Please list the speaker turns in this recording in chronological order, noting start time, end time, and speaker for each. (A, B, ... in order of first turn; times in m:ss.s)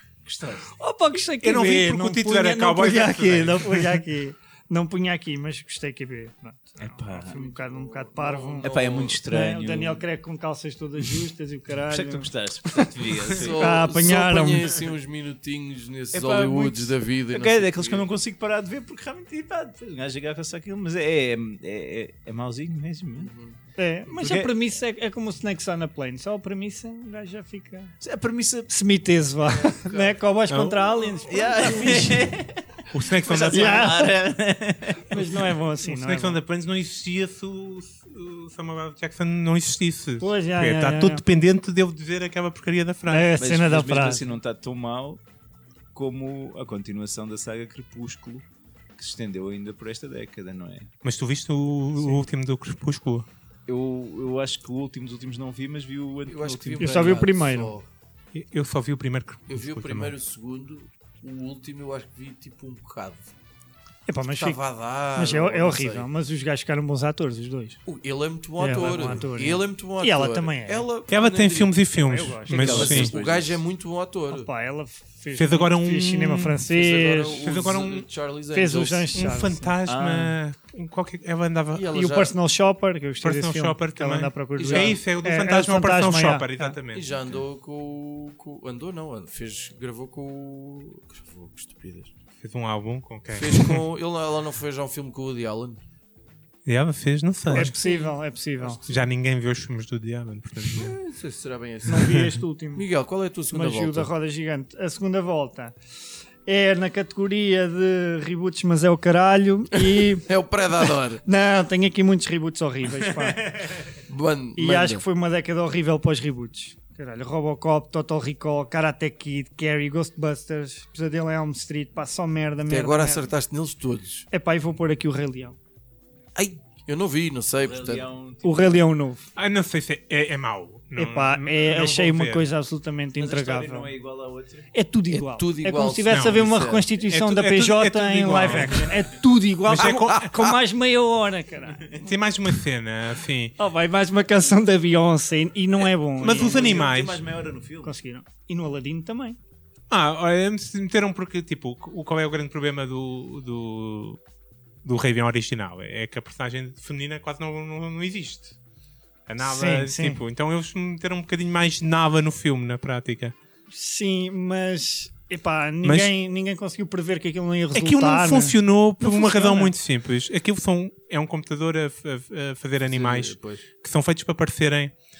0:00.2-0:00.7 A
0:00.8-0:12.9 B
0:01.4-0:04.0 C
0:06.8-0:07.4 A
0:07.2-0:09.2 D
0:08.6-0:10.0 A
0:11.9-0:13.8 A
0:13.3-0:18.1 D
0:13.5-0:14.7 B
0:16.1-0:23.3 A
0:23.2-0:23.6 D
0:23.8-0:27.9 B
0:24.1-0:24.5 A
0:28.0-0:28.7 A
0:28.7-0:32.3 B
0:29.5-0:30.2 D
0:30.5-0:31.2 C
0:31.2-0:35.3 A
0:32.9-0:33.9 C
0:33.4-0:34.1 B
0:35.1-0:36.4 B
0:35.8-0:43.3 C
0:40.2-0:41.2 B
0:43.1-0:44.3 B
0:43.4-0:45.2 A
0:45.9-0:48.4 A
0:49.0-0:50.9 A
0:51.0-0:53.3 C
0:53.7-0:57.2 A
0:56.3-0:57.9 D
0:56.8-0:57.7 B
0:58.3-1:00.1 C
0:59.5-1:03.3 D
1:04.1-1:04.6 B
1:04.4-1:06.1 D
1:05.1-1:07.8 B
1:07.9-1:11.8 D
1:08.6-1:10.9 B
1:11.1-1:13.1 C
1:12.0-1:13.1 B
1:12.5-1:13.6 A
1:12.6-1:14.5 D
1:14.3-1:17.5 B
1:15.4-1:16.6 C
1:16.7-1:19.1 D
1:17.4-1:18.1 C
1:18.5-1:19.7 B
1:19.1-1:21.9 C
1:19.9-1:20.4 A
1:21.7-1:22.3 D
1:21.9-1:26.8 B
1:23.2-1:27.1 C
1:24.6-1:25.0 D
1:26.9-1:32.1 D
1:32.4-1:33.8 C
1:33.3-1:35.8 D
1:36.6-1:37.7 C
1:37.5-1:38.8 B
1:37.5-1:39.0 D
1:38.9-1:41.0 C
1:40.7-1:44.1 D
1:41.9-1:42.9 B
1:43.5-1:45.7 B
1:46.4-1:50.3 B
1:49.8-1:51.2 D
1:51.2-1:53.4 B
1:53.0-1:53.9 A
1:54.1-1:55.0 D
1:54.6-2:03.3 B
2:02.7-2:04.2 D
2:04.3-2:05.6 B
2:06.4-2:08.1 D
2:07.6-2:08.8 A
2:08.4-2:09.3 B
2:09.4-2:12.4 C
2:11.0-2:13.9 B
2:13.2-2:14.7 A
2:14.7-2:21.9 B
2:15.1-2:16.9 D
2:16.1-2:16.4 C
2:17.1-2:18.9 C
2:18.4-2:19.0 A
2:19.7-2:20.3 C
2:19.7-2:20.5 D
2:22.0-2:23.5 C
2:23.6-2:26.9 B
2:26.2-2:27.9 A
2:26.2-2:27.2 C
2:27.8-2:29.4 B
2:29.9-2:34.2 C
2:34.8-2:38.5 C
2:39.3-2:43.4 C
2:39.4-2:40.2 B
2:43.7-2:49.7 B
2:45.8-2:46.1 C
2:47.7-2:55.0 C
2:52.9-2:53.6 D